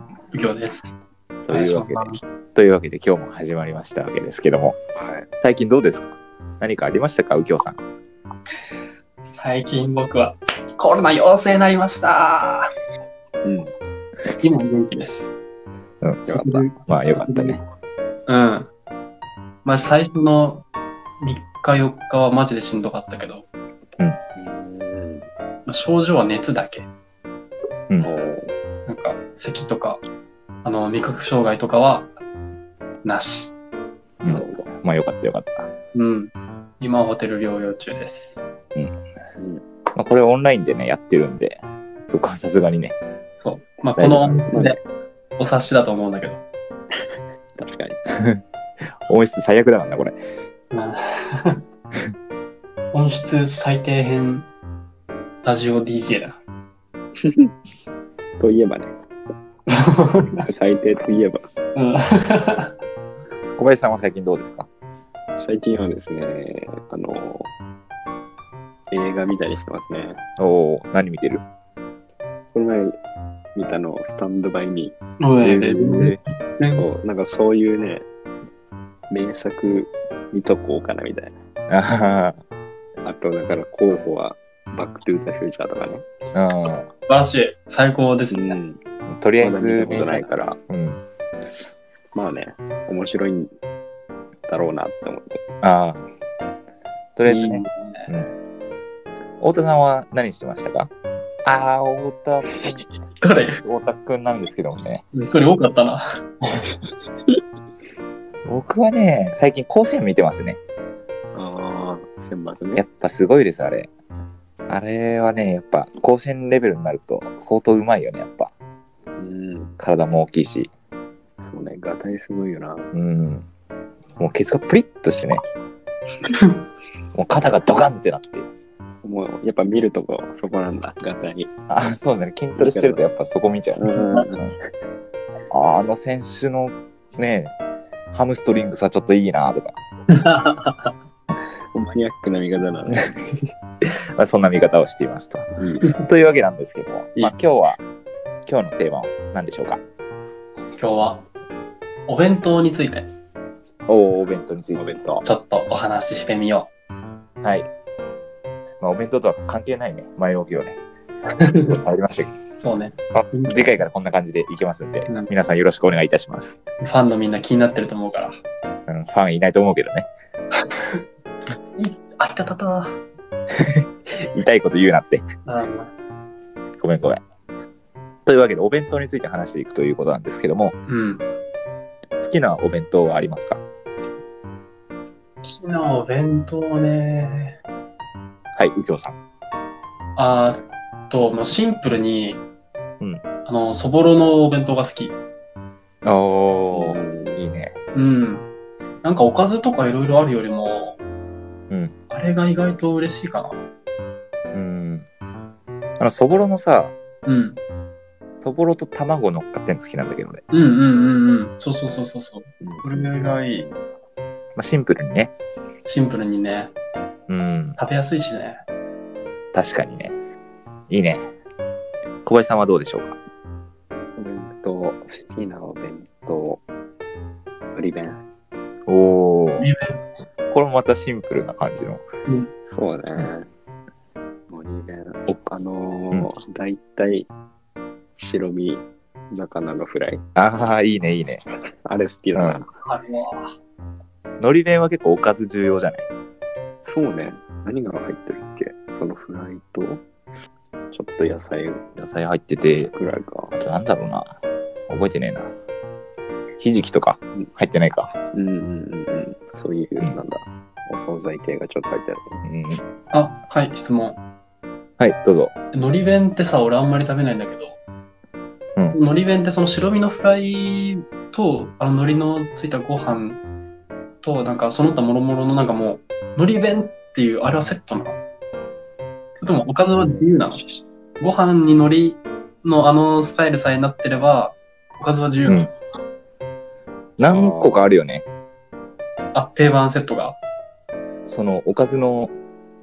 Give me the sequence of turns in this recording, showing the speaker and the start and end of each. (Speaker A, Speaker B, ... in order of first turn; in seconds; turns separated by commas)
Speaker A: 0.3-1.0, Speaker B: 1.4-4.8, Speaker A: 1.5-2.2, Speaker C: 5.0-5.3, Speaker B: 5.4-7.8, Speaker A: 9.3-12.7, Speaker C: 13.4-13.7, Speaker A: 14.4-15.3, Speaker B: 16.0-16.3, Speaker C: 16.3-16.7, Speaker A: 16.4-17.6, Speaker B: 16.9-17.6, Speaker A: 18.3-18.7, Speaker A: 19.6-20.6, Speaker A: 21.2-23.5, Speaker C: 24.4-25.3, Speaker A: 25.7-26.9, Speaker C: 28.0-28.5, Speaker A: 28.9-30.0, Speaker A: 30.6-32.1, Speaker A: 33.0-33.5, Speaker B: 34.2-35.7, Speaker C: 34.3-34.7, Speaker A: 35.9-38.5, Speaker C: 39.4-39.6, Speaker B: 40.0-43.0, Speaker A: 43.4-44.8, Speaker B: 44.0-44.5, Speaker C: 44.5-44.8, Speaker A: 45.4-46.4, Speaker C: 47.6-48.0, Speaker B: 48.1-48.4, Speaker B: 49.1-50.2, Speaker A: 50.7-51.6, Speaker A: 52.9-54.5, Speaker A: 55.4-56.4, Speaker C: 58.4-58.9, Speaker A: 59.7-60.5, Speaker C: 60.4-61.4, Speaker A: 61.8-62.7, Speaker B: 63.6-64.7, Speaker C: 65.4-67.5, Speaker C: 68.9-70.2, Speaker B: 70.4-71.4, Speaker C: 72.5-73.0, Speaker C: 73.5-75.0, Speaker A: 75.2-76.9, Speaker B: 75.4-76.2, Speaker C: 76.8-78.1, Speaker C: 79.1-81.3, Speaker B: 81.7-82.4, Speaker C: 83.0-86.1, Speaker B: 86.3-86.9, Speaker A: 87.1-88.6, Speaker C: 88.3-88.8, Speaker B: 89.1-91.0, Speaker C: 89.4-90.6, Speaker C: 92.1-93.5, Speaker C: 94.5-95.5, Speaker B: 95.6-96.1, Speaker B: 97.2-98.3, Speaker A: 97.2-98.1, Speaker B: 99.4-100.9, Speaker B: 101.5-102.9, Speaker A: 103.2-103.6, Speaker B: 103.6-105.0, Speaker A: 105.1-106.1, Speaker B: 108.5-110.6, Speaker C: 111.3-112.8, Speaker B: 112.8-113.9, Speaker B: 114.7-118.5, Speaker C: 119.2-119.8, Speaker B: 119.8-120.7, Speaker C: 121.4-122.9, Speaker B: 122.9-123.5, Speaker B: 124.2-125.4, Speaker A: 126.3-126.5, Speaker B: 127.2-128.5, Speaker C: 129.0-131.5, Speaker B: 131.7-133.8, Speaker C: 132.6-133.0, Speaker C: 133.8-134.6, Speaker B: 135.5-137.5, Speaker B: 138.1-139.8, Speaker A: 140.1-140.9, Speaker C: 141.7-143.3, Speaker B: 144.2-147.8, Speaker C: 145.6-145.9, Speaker B: 148.5-149.8, Speaker A: 150.8-151.2, Speaker A: 152.1-153.1, Speaker B: 153.9-155.0, Speaker C: 154.8-155.2, Speaker A: 155.2-156.7, Speaker B: 157.4-157.7, Speaker B: 158.8-160.8, Speaker A: 161.4-161.7, Speaker B: 161.6-162.3, Speaker A: 162.6-163.7, Speaker B: 163.1-166.6, Speaker A: 166.8-168.4, Speaker B: 168.9-170.1, Speaker A: 171.8-173.0, Speaker B: 173.6-175.2, Speaker A: 175.5-175.9, Speaker B: 176.8-177.2, Speaker B: 178.2-180.8, Speaker A: 180.9-181.2, Speaker B: 182.2-183.6, Speaker A: 185.4-187.6, Speaker B: 188.6-189.2, Speaker A: 190.2-192.4, Speaker A: 193.4-195.2, Speaker B: 196.1-197.8, Speaker C: 196.7-197.4, Speaker A: 197.9-198.5, Speaker A: 199.0-201.0, Speaker A: 202.1-203.6, Speaker B: 204.5-205.1, Speaker B: 206.0-206.9, Speaker A: 207.2-207.6, Speaker B: 208.4-210.4, Speaker A: 210.5-213.7, Speaker C: 212.6-213.8, Speaker B: 214.6-215.3, Speaker A: 215.8-216.7, Speaker B: 217.3-217.8, Speaker A: 217.8-218.6, Speaker B: 219.5-220.1, Speaker B: 220.9-221.3, Speaker B: 222.2-223.2, Speaker C: 224.2-226.6, Speaker C: 227.8-228.2, Speaker B: 228.9-229.7, Speaker A: 229.6-230.0, Speaker B: 230.5-232.0, Speaker C: 232.7-233.5, Speaker C: 234.5-237.3, Speaker C: 238.2-240.2, Speaker B: 240.4-241.4, Speaker C: 241.8-242.7, Speaker B: 242.3-242.6, Speaker A: 242.8-243.5, Speaker B: 244.4-246.1, Speaker C: 246.9-250.0, Speaker C: 250.9-251.8, Speaker B: 252.0-252.9, Speaker C: 252.9-253.6, Speaker B: 253.5-254.3, Speaker B: 254.9-255.5, Speaker B: 256.6-258.1, Speaker C: 258.3-262.4, Speaker B: 262.4-262.8, Speaker A: 263.1-264.2, Speaker B: 265.0-265.5, Speaker A: 265.7-267.8, Speaker A: 268.9-273.4, Speaker A: 274.2-278.2, Speaker A: 279.4-280.6, Speaker C: 279.9-280.8, Speaker A: 281.2-285.7, Speaker B: 285.5-285.7, Speaker B: 287.2-288.3, Speaker C: 287.2-287.9, Speaker A: 289.3-290.4, Speaker B: 291.3-292.3